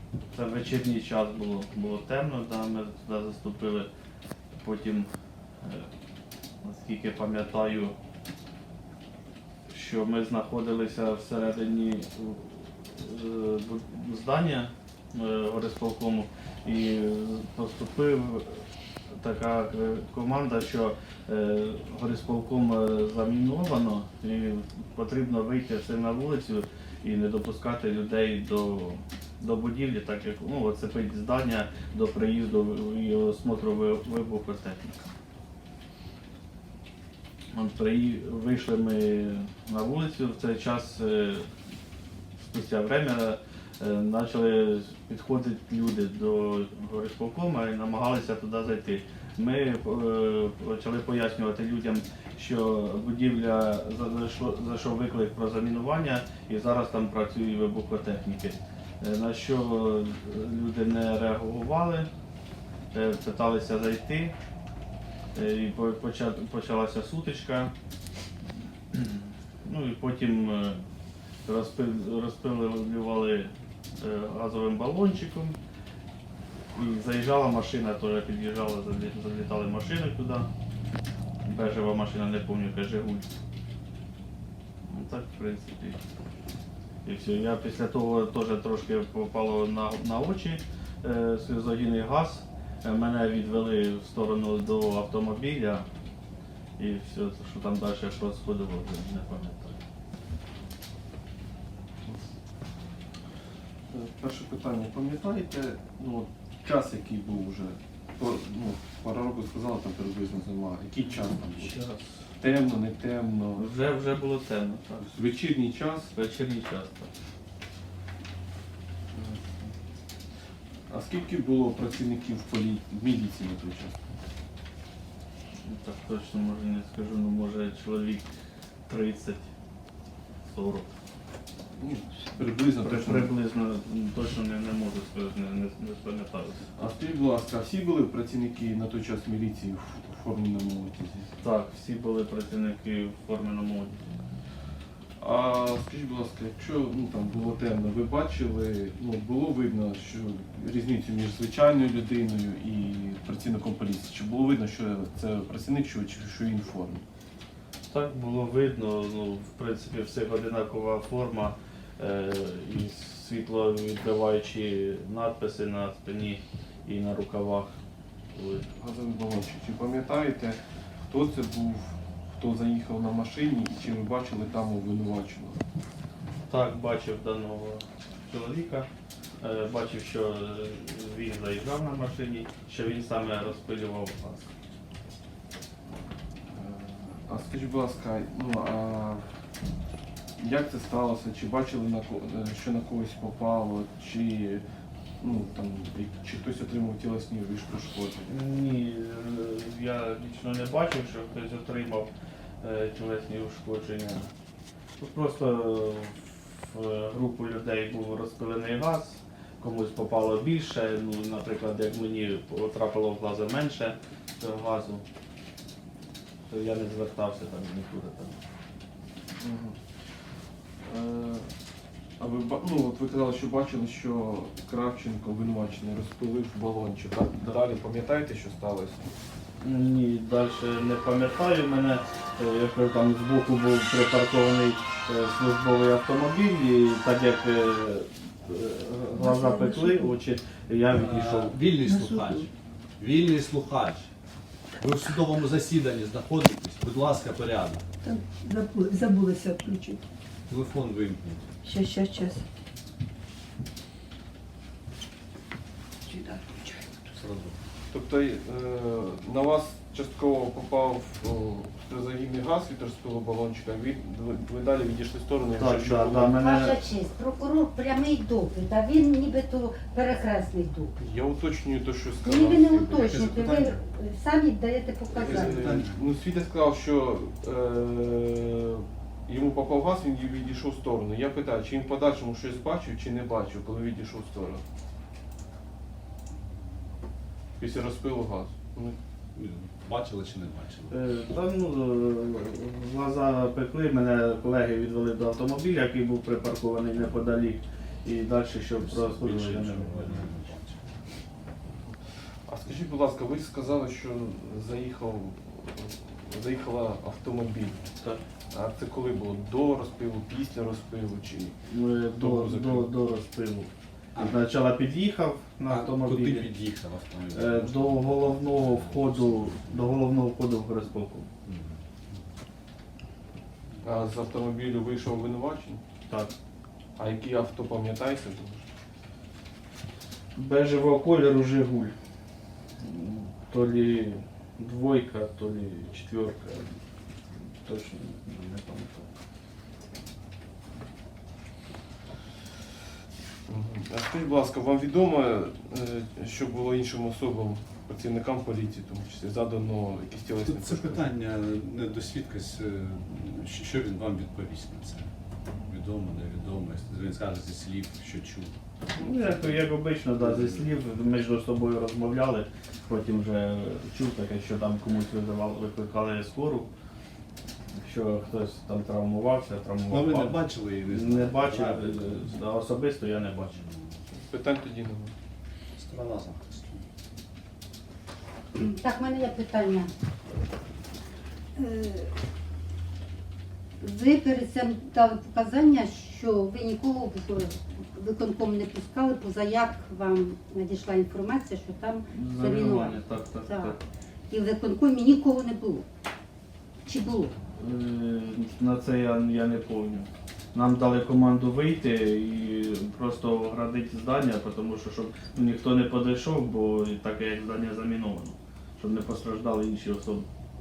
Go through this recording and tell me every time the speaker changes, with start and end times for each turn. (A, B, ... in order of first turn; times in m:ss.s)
0:00.3-0:03.9 A
0:04.5-0:05.9 A
0:06.6-0:07.9 A
0:09.7-0:35.1 A
0:37.5-0:41.5 A
0:42.5-1:02.1 A
1:02.9-1:04.3 A
1:05.3-1:07.7 A
1:08.9-1:10.8 A
1:11.4-1:15.6 A
1:16.7-1:20.5 A
1:21.4-1:23.3 A
1:24.9-1:26.0 A
1:27.0-1:35.8 A
1:36.8-1:39.8 A
1:43.9-1:51.8 B
1:51.2-1:52.2 A
1:52.4-1:53.6 B
1:53.6-1:55.1 A
1:55.0-1:56.1 B
1:56.1-1:57.1 A
1:59.1-1:59.7 B
2:00.9-2:04.0 B
2:05.6-2:08.3 A
2:08.9-2:09.5 A
2:10.5-2:10.9 A
2:11.7-2:13.4 B
2:12.8-2:16.6 A
2:16.8-2:21.3 B
2:21.4-2:24.0 A
2:25.2-2:37.0 B
2:37.9-2:47.7 A
2:48.3-2:48.6 A
2:48.7-2:55.6 B
2:56.5-2:58.9 A
2:59.4-3:04.5 A
3:06.5-3:09.2 B
3:10.4-3:14.6 B
3:15.2-3:18.3 B
3:18.2-3:22.1 A
3:22.6-3:24.3 A
3:25.0-3:35.0 A
3:36.5-3:38.4 A
3:39.4-3:40.0 B
3:40.8-3:41.5 B
3:42.2-3:49.0 B
3:49.6-4:01.6 A
3:59.1-4:00.1 C
4:00.9-4:04.1 D
4:01.8-4:02.5 C
4:04.8-4:07.8 D
4:08.0-4:10.0 C
4:10.5-4:11.5 D
4:11.6-4:12.4 C
4:16.0-4:17.0 C
4:17.1-4:17.6 D
4:17.9-4:26.4 B
4:25.6-4:26.8 A
4:26.4-4:30.9 E
4:31.0-4:32.7 B
4:32.2-4:35.7 E
4:32.7-4:33.8 D
4:35.1-4:36.0 D
4:35.1-4:44.6 B
4:47.6-4:49.0 B
4:49.4-4:51.0 D
4:50.9-5:00.3 A
4:58.8-5:00.9 D
5:01.8-5:07.8 B
5:08.5-5:11.6 B
5:11.7-5:16.5 A
5:12.2-5:12.9 B
5:14.1-5:14.4 D
5:15.7-5:19.9 D
5:17.3-5:21.3 A
5:21.4-5:22.2 D
5:23.8-5:25.8 B
5:26.1-5:26.3 A
5:27.0-5:28.6 B
5:30.3-5:31.9 A
5:32.8-5:36.8 A
5:37.4-5:39.1 A
5:43.5-5:51.1 B
5:50.4-5:55.1 D
5:55.6-5:58.5 D
5:59.0-5:59.5 B
5:59.0-6:06.7 A
6:00.2-6:00.7 D
6:07.7-6:13.6 A
6:09.9-6:12.3 D
6:13.5-6:13.8 D
6:14.3-6:15.1 B
6:15.8-6:16.8 D
6:18.6-6:19.9 E
6:21.6-6:22.1 E
6:23.8-6:33.7 E
6:32.1-6:33.8 A
6:34.3-6:35.8 E
6:36.8-6:37.4 E
6:37.6-6:50.3 A